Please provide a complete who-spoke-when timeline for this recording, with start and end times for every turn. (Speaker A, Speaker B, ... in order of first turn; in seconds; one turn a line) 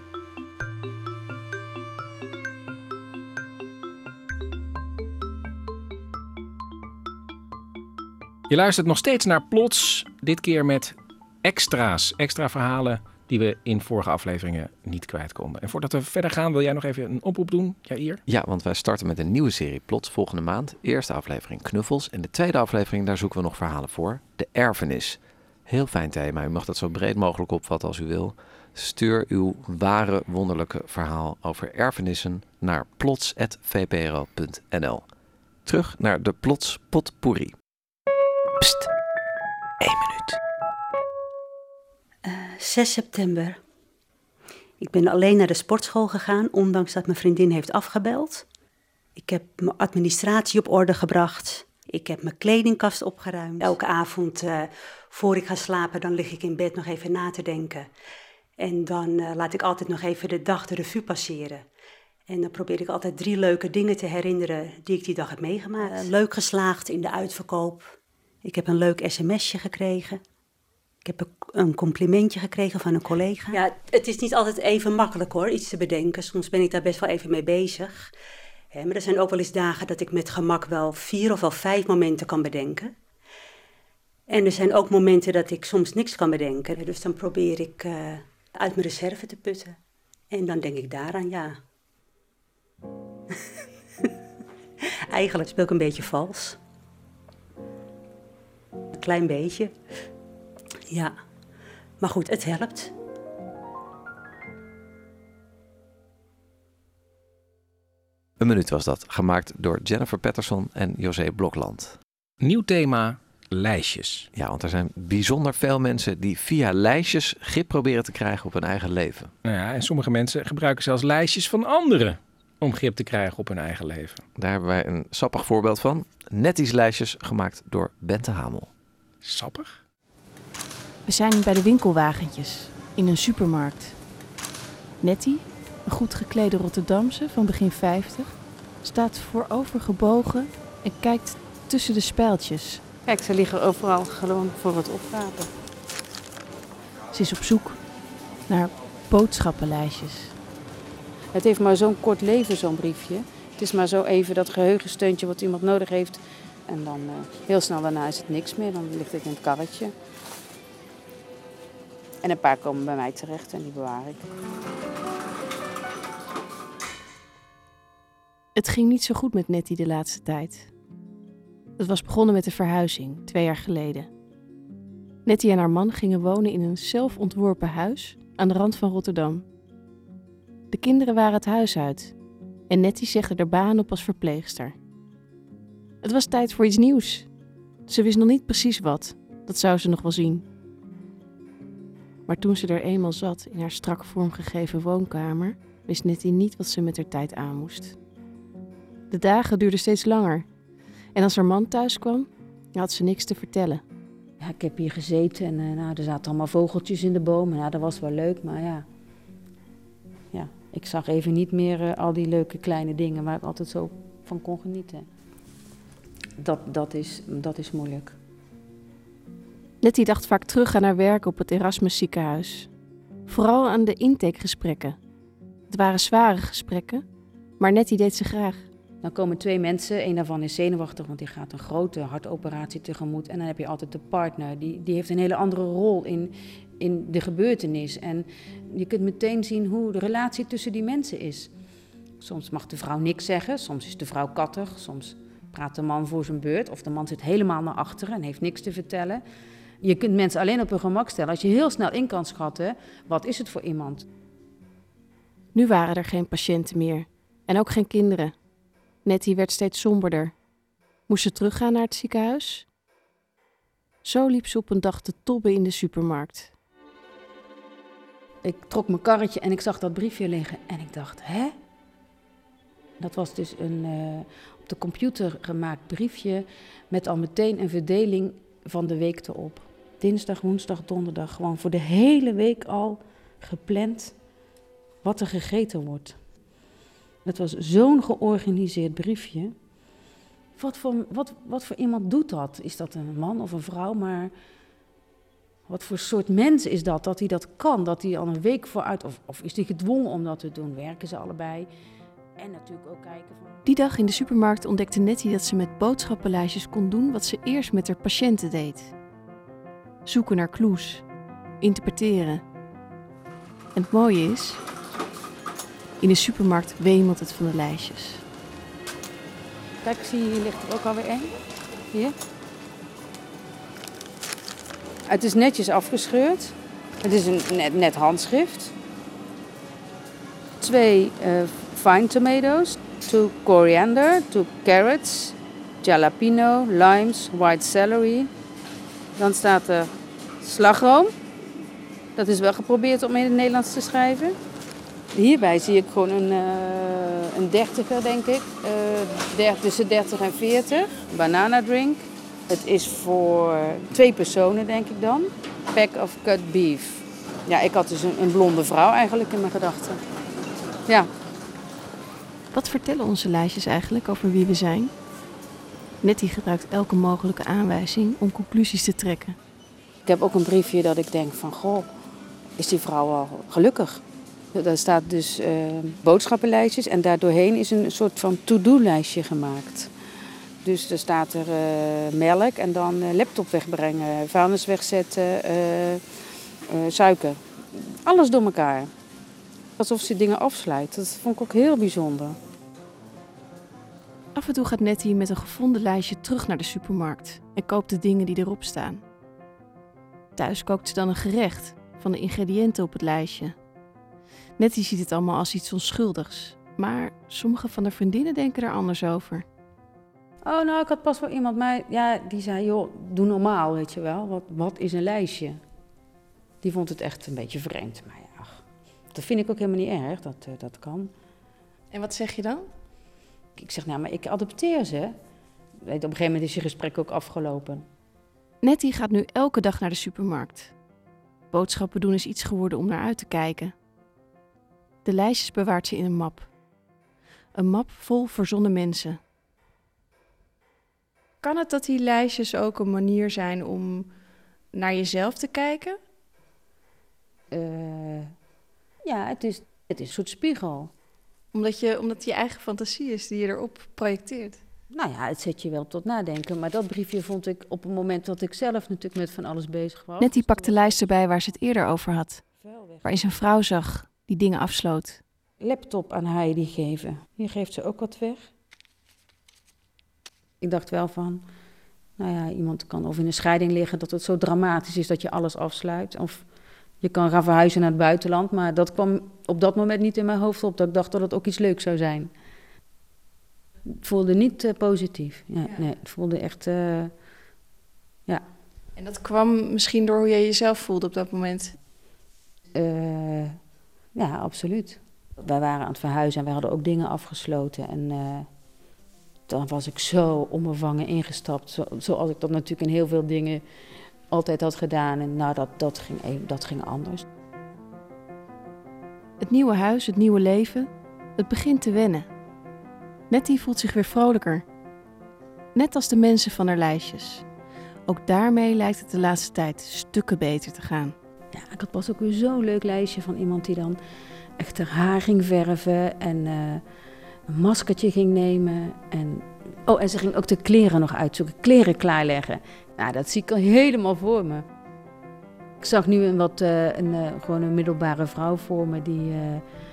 Speaker A: 8.5-18.2
Speaker B: 18.3-35.1
Speaker B: 35.6-37.5
Speaker B: 38.6-38.9
Speaker B: 39.8-40.4
Speaker C: 42.2-43.6
Speaker C: 44.8-48.5
Speaker C: 49.2-57.9
Speaker C: 58.6-61.6
Speaker C: 62.3-70.2
Speaker C: 71.0-78.1
Speaker C: 78.7-82.9
Speaker C: 84.3-89.8
Speaker C: 90.3-91.6
Speaker C: 95.1-96.6
Speaker C: 99.0-99.7
Speaker C: 100.9-101.2
Speaker C: 102.0-102.9
Speaker B: 108.4-112.0
Speaker A: 112.4-114.3
Speaker B: 114.3-119.3
Speaker A: 119.5-124.2
Speaker B: 124.4-128.7
Speaker A: 129.2-129.8
Speaker D: 131.1-134.0
Speaker D: 135.0-142.8
Speaker E: 143.1-145.5
Speaker D: 147.1-147.8
Speaker D: 148.5-150.3
Speaker E: 151.3-159.9
Speaker E: 162.2-164.3
Speaker D: 168.6-170.7
Speaker D: 171.8-174.1
Speaker D: 175.3-179.4
Speaker D: 180.7-182.1
Speaker D: 182.7-184.8
Speaker D: 186.0-187.3
Speaker D: 187.9-190.5
Speaker D: 192.3-198.0
Speaker D: 199.1-200.5
Speaker D: 201.1-203.8
Speaker E: 204.4-208.8
Speaker E: 210.3-215.1
Speaker E: 216.4-218.2
Speaker D: 219.8-222.7
Speaker D: 223.3-225.0
Speaker D: 225.7-227.0
Speaker D: 227.6-228.7
Speaker E: 229.0-241.5
Speaker E: 242.2-249.2
Speaker E: 249.8-254.1
Speaker D: 255.5-258.4
Speaker D: 259.0-260.4
Speaker D: 261.1-262.7
Speaker D: 264.0-266.5
Speaker E: 268.4-271.6
Speaker E: 273.0-284.1
Speaker E: 285.0-286.2
Speaker E: 287.2-289.5
Speaker E: 290.6-294.3
Speaker E: 295.7-301.7
Speaker E: 302.4-304.3
Speaker D: 303.6-308.9
Speaker D: 310.1-311.1
Speaker D: 311.6-312.4
Speaker D: 313.8-314.6
Speaker D: 316.0-318.2
Speaker E: 319.8-321.3
Speaker E: 325.1-328.7
Speaker E: 330.6-338.3
Speaker E: 339.2-339.9
Speaker E: 340.4-341.1
Speaker E: 342.1-344.4
Speaker E: 345.1-360.0
Speaker D: 362.5-364.9
Speaker D: 366.0-369.4
Speaker E: 370.1-371.9
Speaker E: 372.6-374.0
Speaker E: 374.5-379.9
Speaker E: 380.6-386.0
Speaker E: 386.7-388.9
Speaker E: 389.8-392.4
Speaker D: 394.4-399.0
Speaker D: 400.4-403.6
Speaker D: 404.6-409.4
Speaker E: 410.4-415.6
Speaker E: 416.6-421.1
Speaker D: 421.9-422.7
Speaker E: 423.6-425.1
Speaker E: 425.9-427.9
Speaker D: 428.6-430.7
Speaker D: 431.5-433.8
Speaker D: 435.1-436.5
Speaker D: 437.5-439.2
Speaker D: 441.4-444.1
Speaker D: 444.7-446.0
Speaker E: 447.5-448.3
Speaker E: 449.0-450.9
Speaker D: 451.5-454.6
Speaker E: 454.9-461.4
Speaker D: 460.2-462.4
Speaker E: 462.5-463.2
Speaker D: 463.0-465.2
Speaker E: 465.6-468.5
Speaker E: 470.6-471.4
Speaker E: 472.2-476.5
Speaker E: 477.0-482.3
Speaker E: 484.0-487.1
Speaker D: 489.0-491.7
Speaker E: 492.8-493.6
Speaker E: 494.1-498.5
Speaker E: 499.5-503.6
Speaker E: 504.3-507.2
Speaker D: 509.4-512.3
Speaker D: 513.3-514.6
Speaker D: 515.8-517.5
Speaker D: 518.1-521.1
Speaker E: 521.5-524.0
Speaker E: 524.6-526.8
Speaker E: 527.5-534.6
Speaker E: 535.8-539.6